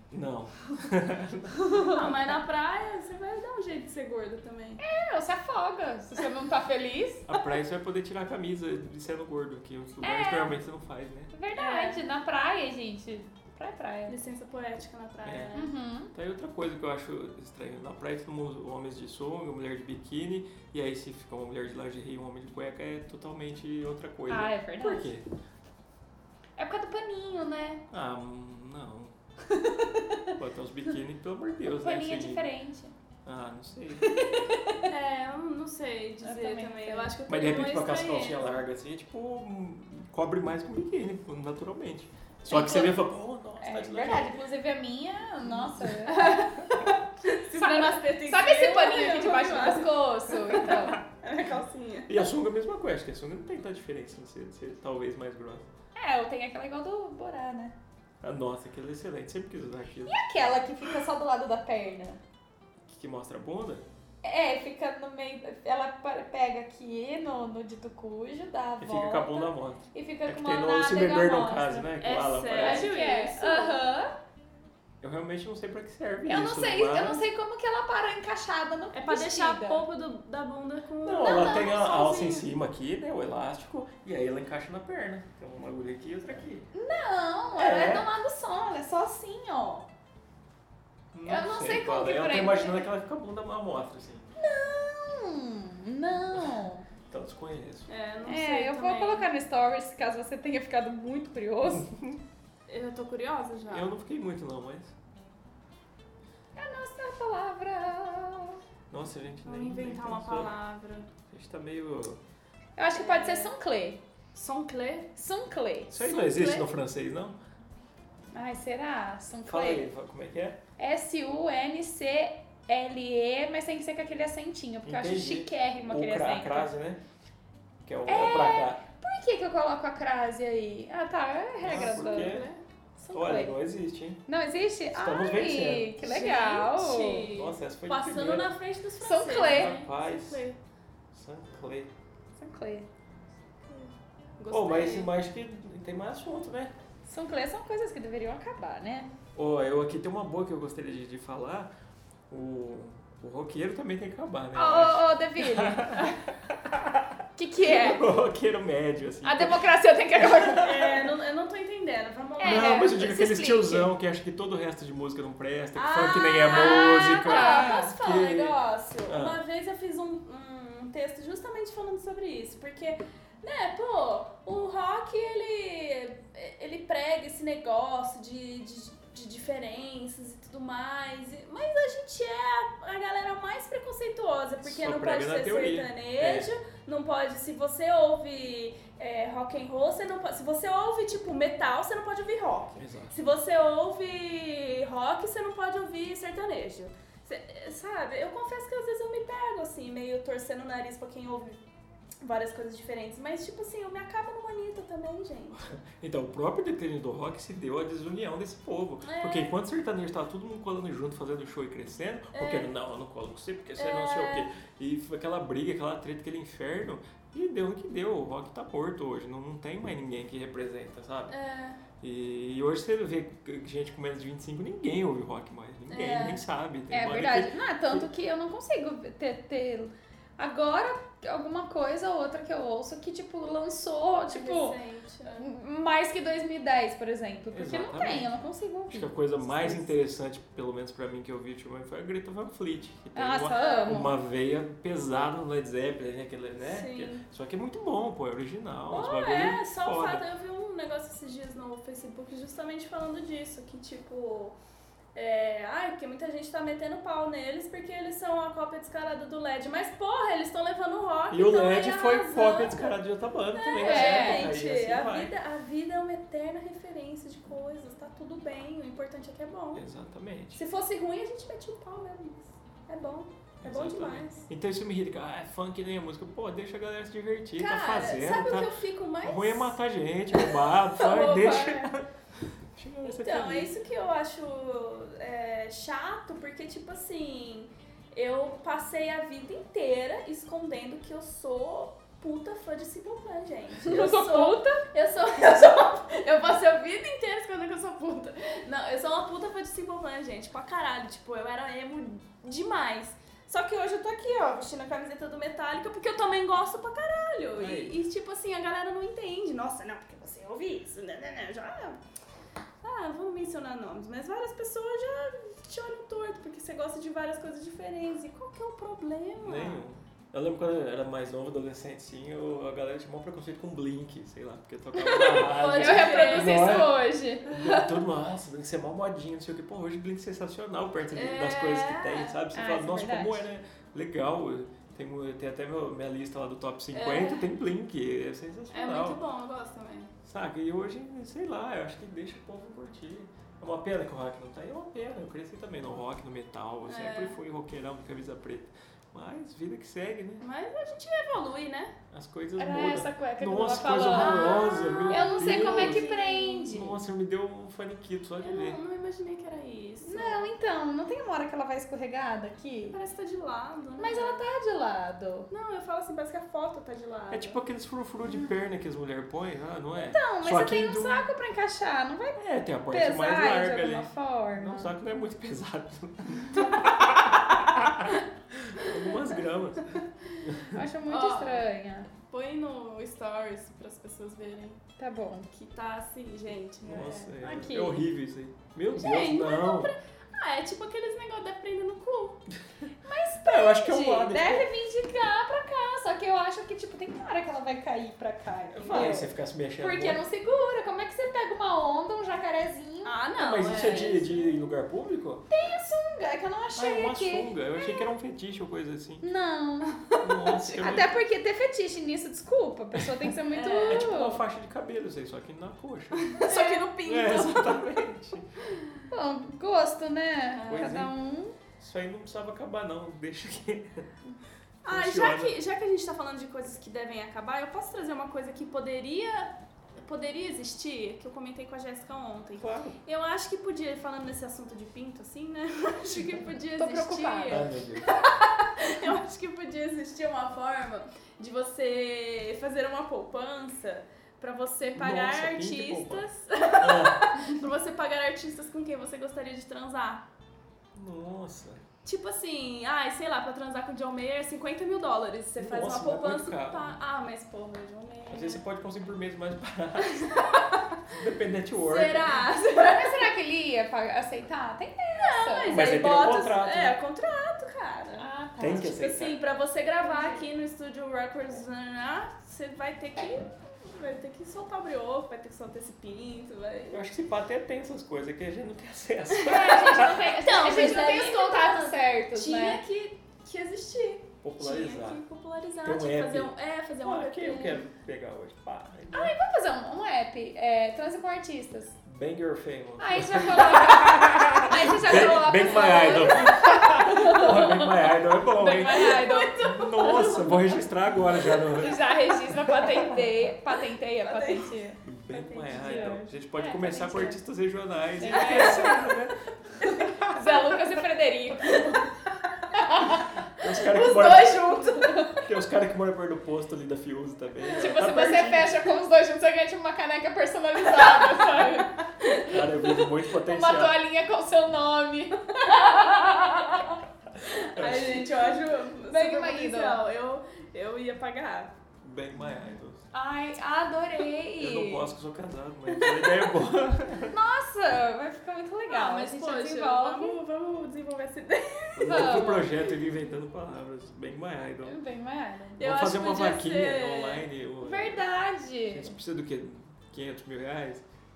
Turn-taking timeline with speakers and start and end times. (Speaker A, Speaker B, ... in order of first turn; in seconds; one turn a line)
Speaker A: 0.1-2.1
Speaker B: 1.8-4.8
Speaker C: 4.8-7.3
Speaker A: 7.3-11.3
Speaker C: 10.0-10.6
Speaker C: 11.3-14.2
Speaker B: 11.6-12.0
Speaker B: 14.1-15.7
Speaker A: 15.2-15.5
Speaker C: 15.6-16.1
Speaker A: 16.1-25.3
Speaker C: 24.3-25.1
Speaker C: 26.6-27.8
Speaker A: 27.9-29.1
Speaker C: 29.6-30.3
Speaker A: 30.4-32.5
Speaker C: 31.7-32.9
Speaker A: 33.2-34.3
Speaker C: 34.0-34.9
Speaker B: 34.9-38.6
Speaker C: 36.2-37.1
Speaker A: 37.3-44.4
Speaker C: 42.5-43.0
Speaker C: 43.6-46.5
Speaker A: 45.5-45.8
Speaker B: 46.1-46.6
Speaker B: 47.2-52.1
Speaker C: 47.5-51.0
Speaker A: 52.1-55.7
Speaker C: 56.0-57.8
Speaker A: 58.2-60.2
Speaker C: 60.1-62.2
Speaker A: 62.9-63.9
Speaker C: 64.2-71.9
Speaker A: 68.8-72.9
Speaker B: 72.0-73.8
Speaker C: 72.6-74.1
Speaker A: 75.0-77.3
Speaker C: 76.3-79.8
Speaker B: 78.9-82.4
Speaker A: 81.0-86.7
Speaker C: 81.3-82.1
Speaker C: 86.7-89.9
Speaker A: 87.5-88.1
Speaker A: 91.1-94.3
Speaker C: 91.3-92.9
Speaker C: 94.4-96.9
Speaker A: 96.3-97.9
Speaker B: 97.9-99.3
Speaker C: 98.3-101.9
Speaker A: 101.7-102.2
Speaker B: 102.7-103.9
Speaker A: 103.7-104.9
Speaker C: 106.6-108.6
Speaker A: 108.9-110.6
Speaker B: 109.5-111.1
Speaker A: 111.3-112.2
Speaker C: 112.8-114.0
Speaker B: 112.9-113.5
Speaker B: 114.3-115.1
Speaker C: 115.2-116.3
Speaker A: 115.9-117.4
Speaker B: 116.0-116.7
Speaker C: 118.3-119.9
Speaker A: 119.4-120.6
Speaker C: 120.8-126.7
Speaker A: 124.8-127.0
Speaker A: 127.8-128.8
Speaker C: 128.1-132.4
Speaker A: 131.6-132.5
Speaker B: 131.7-132.6
Speaker C: 133.0-133.6
Speaker A: 133.1-134.2
Speaker C: 134.3-137.3
Speaker A: 134.9-135.9
Speaker B: 136.0-140.6
Speaker A: 137.3-138.5
Speaker C: 139.0-139.7
Speaker A: 139.4-140.5
Speaker A: 141.1-141.9
Speaker C: 142.4-142.9
Speaker B: 143.7-145.1
Speaker A: 144.5-146.7
Speaker C: 147.1-149.1
Speaker A: 149.3-151.7
Speaker A: 152.3-161.1
Speaker C: 154.6-156.0
Speaker C: 157.4-158.1
Speaker C: 159.2-160.7
Speaker B: 160.6-162.9
Speaker C: 162.4-163.9
Speaker A: 162.4-169.4
Speaker B: 165.8-201.6
Speaker C: 166.5-167.9
Speaker A: 184.6-186.5
Speaker A: 192.8-193.2
Speaker B: 202.2-205.7
Speaker A: 205.9-221.3
Speaker B: 209.0-209.6
Speaker B: 212.3-212.7
Speaker B: 213.8-214.5
Speaker B: 221.3-221.8
Speaker A: 222.0-228.1
Speaker B: 225.9-226.4
Speaker C: 226.9-234.8
Speaker B: 234.3-235.5
Speaker C: 235.4-239.9
Speaker A: 237.5-238.4
Speaker A: 238.9-250.2
Speaker C: 243.2-244.1
Speaker B: 243.5-244.0
Speaker B: 246.6-247.2
Speaker B: 248.9-254.6
Speaker B: 255.2-263.0
Speaker A: 261.3-265.3
Speaker B: 263.6-269.9
Speaker C: 263.8-264.5
Speaker A: 269.7-270.6
Speaker B: 270.5-274.5
Speaker A: 273.6-278.7
Speaker B: 277.6-279.8
Speaker A: 279.2-282.1
Speaker B: 280.4-281.9
Speaker A: 282.8-283.7
Speaker B: 283.0-312.0
Speaker C: 293.9-294.8
Speaker A: 307.6-308.0
Speaker B: 312.8-319.9
Speaker A: 319.4-339.2
Speaker B: 325.2-326.9
Speaker C: 325.4-327.9
Speaker B: 331.1-332.4
Speaker C: 332.5-333.4
Speaker B: 336.9-337.5
Speaker B: 338.7-340.1
Speaker A: 340.2-350.4
Speaker B: 346.9-347.4
Speaker B: 350.4-351.9
Speaker A: 352.1-358.8
Speaker C: 352.6-356.9
Speaker B: 354.1-356.6
Speaker B: 358.4-360.5
Speaker C: 360.0-363.0
Speaker B: 362.9-364.4
Speaker C: 364.0-365.5
Speaker B: 365.5-367.6
Speaker A: 367.3-371.3
Speaker C: 370.0-374.9
Speaker A: 372.4-380.8
Speaker C: 380.7-382.1
Speaker B: 381.1-381.7
Speaker B: 382.3-384.8
Speaker C: 385.0-385.5
Speaker B: 385.5-387.8
Speaker A: 386.8-389.9
Speaker C: 387.4-388.0
Speaker B: 388.9-392.4
Speaker C: 393.1-403.2
Speaker A: 393.4-394.7
Speaker A: 398.7-400.2
Speaker B: 398.8-399.2
Speaker B: 403.1-404.5
Speaker A: 403.4-405.4
Speaker C: 405.5-408.0
Speaker A: 406.8-409.3
Speaker C: 409.2-414.4
Speaker A: 410.2-411.2
Speaker B: 413.5-414.1
Speaker A: 413.8-416.4
Speaker B: 416.3-417.8
Speaker C: 416.4-416.8
Speaker A: 417.0-418.5
Speaker C: 419.1-421.6
Speaker B: 420.5-421.0
Speaker A: 420.6-421.1
Speaker A: 421.8-424.1
Speaker A: 424.8-425.6
Speaker B: 424.8-450.2
Speaker A: 432.6-433.0
Speaker C: 436.8-437.6
Speaker A: 437.5-438.1
Speaker A: 444.9-446.3
Speaker A: 446.8-447.3
Speaker A: 450.9-451.8
Speaker B: 452.1-458.6
Speaker A: 455.6-457.0
Speaker A: 458.3-460.5
Speaker B: 460.1-461.0
Speaker A: 461.1-462.4
Speaker B: 461.8-463.3
Speaker C: 462.7-465.8
Speaker B: 465.2-477.0
Speaker A: 465.7-467.0
Speaker C: 468.2-469.0
Speaker A: 468.6-469.4
Speaker C: 470.0-470.4
Speaker A: 476.9-481.0
Speaker B: 479.4-487.9
Speaker C: 479.5-482.8
Speaker A: 484.4-485.2
Speaker A: 485.8-489.4
Speaker C: 489.1-491.9
Speaker A: 492.1-502.0
Speaker C: 493.0-497.9
Speaker C: 498.5-499.5
Speaker B: 498.9-500.8
Speaker C: 501.8-505.0
Speaker B: 504.2-504.8
Speaker A: 505.1-509.4
Speaker B: 505.3-506.2
Speaker C: 505.7-507.4
Speaker C: 508.2-509.0
Speaker B: 508.3-509.2
Speaker C: 510.2-512.0
Speaker B: 511.8-512.1
Speaker C: 512.8-513.2
Speaker A: 513.6-514.8
Speaker B: 513.6-515.5
Speaker A: 515.4-518.9
Speaker C: 517.8-521.9
Speaker A: 522.5-524.0
Speaker C: 523.4-526.9
Speaker B: 525.5-526.9
Speaker B: 527.5-531.7
Speaker A: 527.5-528.6
Speaker C: 529.1-530.0
Speaker A: 532.0-533.1
Speaker C: 533.1-535.1
Speaker A: 534.6-537.4
Speaker B: 535.9-536.5
Speaker C: 537.3-540.4
Speaker B: 538.9-542.7
Speaker A: 542.0-545.0
Speaker C: 542.0-542.7
Speaker C: 544.8-545.8
Speaker B: 545.8-547.5
Speaker A: 545.8-548.3
Speaker C: 547.8-549.2
Speaker A: 548.9-551.0